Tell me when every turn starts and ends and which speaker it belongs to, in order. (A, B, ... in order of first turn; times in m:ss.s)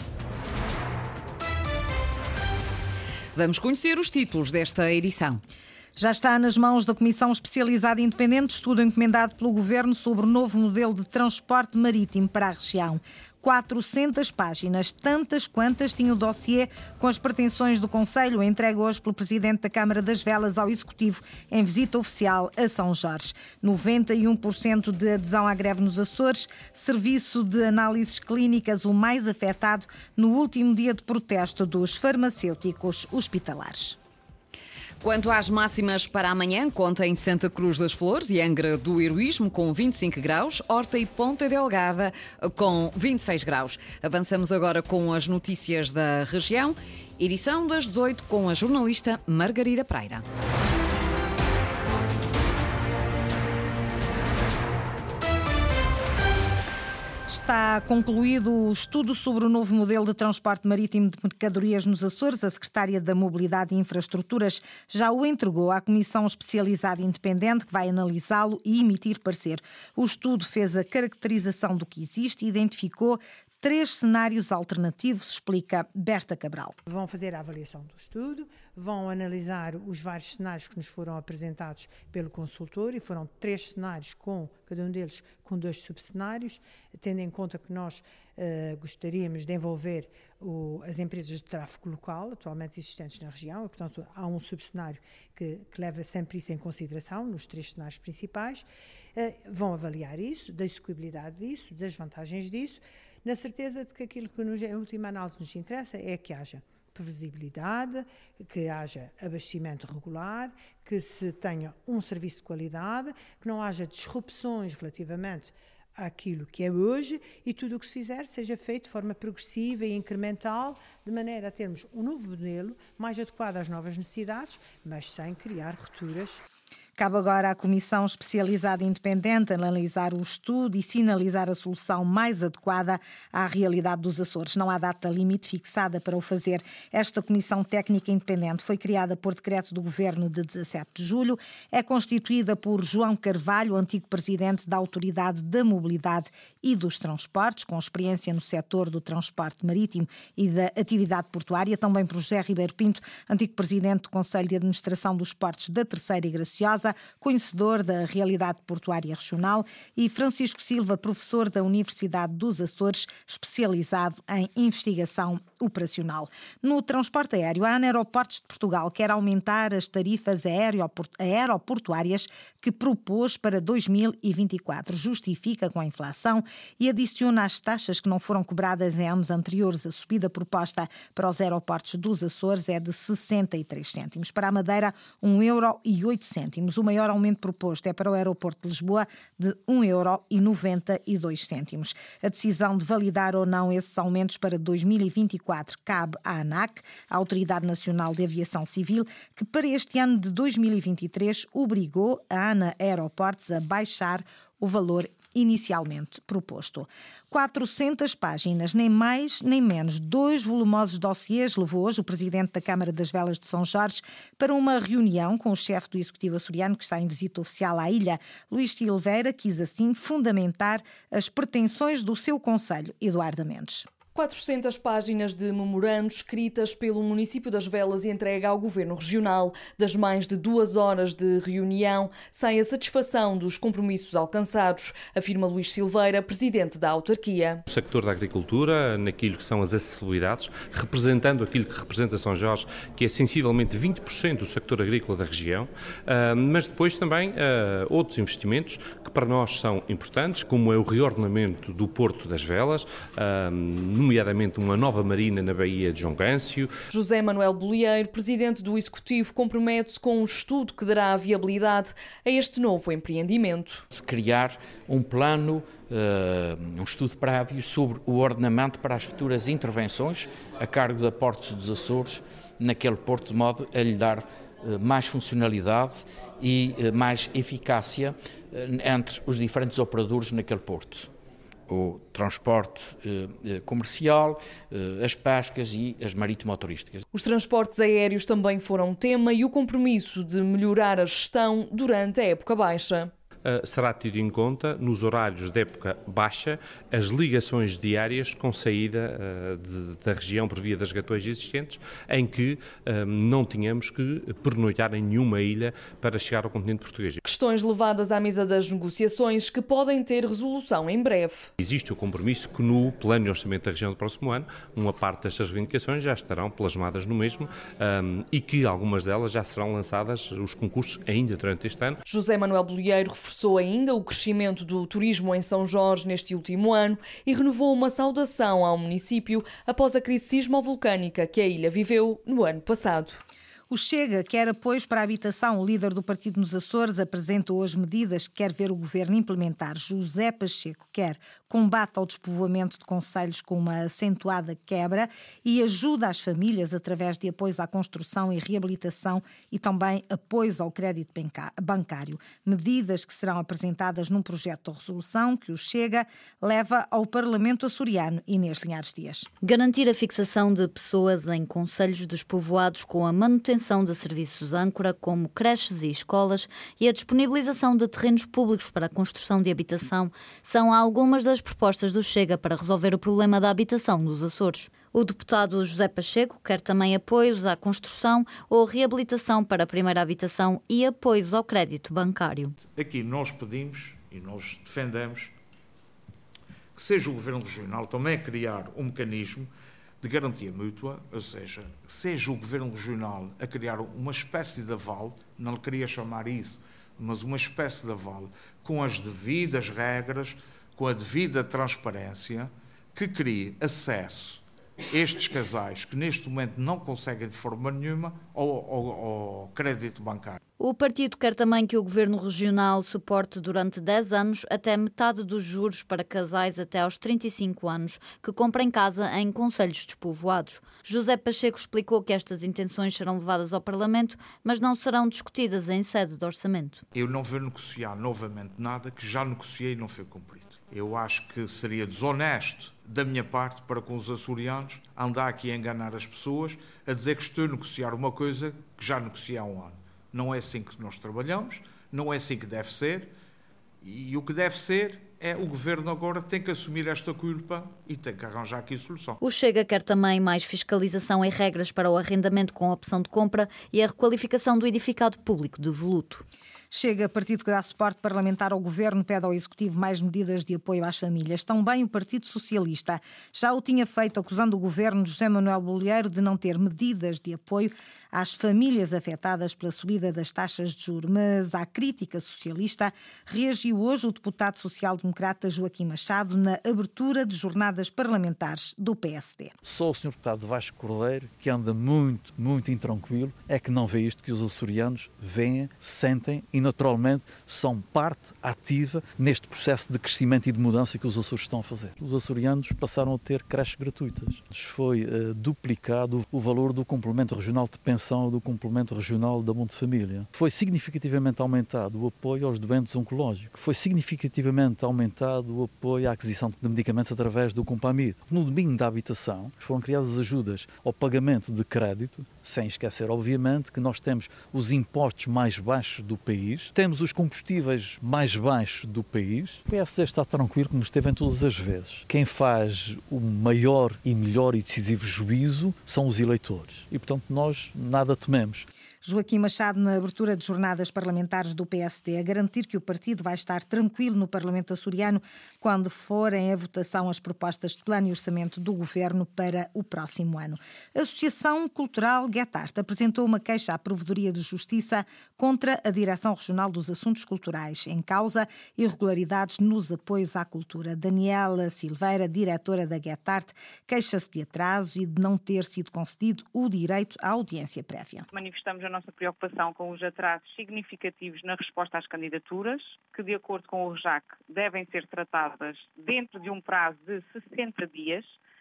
0:03.3-0:05.4 A
0:06.0-0:34.0 B
0:35.0-0:50.2 A
0:57.3-1:16.8 B
1:16.9-2:06.4 C
2:07.0-3:43.9 B
3:44.2-3:57.5 D
3:57.7-4:16.7 E
4:16.9-4:23.6 D
4:23.9-4:41.1 F
4:41.7-4:47.0 F
4:47.2-4:47.9 A
4:47.2-4:52.9 D
4:52.8-4:53.0 A
4:53.4-5:07.2 E
5:07.3-5:11.2 D
5:10.9-5:11.5 A
5:11.6-5:22.0 E
5:22.1-5:32.6 D
5:28.0-5:28.4 A
5:32.4-5:33.2 A
5:33.7-5:59.3 B
5:59.4-6:22.5 G
6:22.8-6:25.3 H
6:26.8-6:29.5 H
6:30.0-6:50.4 H
6:50.6-7:06.8 G
7:06.9-7:23.1 H
7:23.8-7:29.2 H
7:29.2-7:36.2 G
7:36.7-7:59.5 B
7:59.6-8:48.7 I
8:49.0-9:18.3 B
9:18.3-9:28.3 J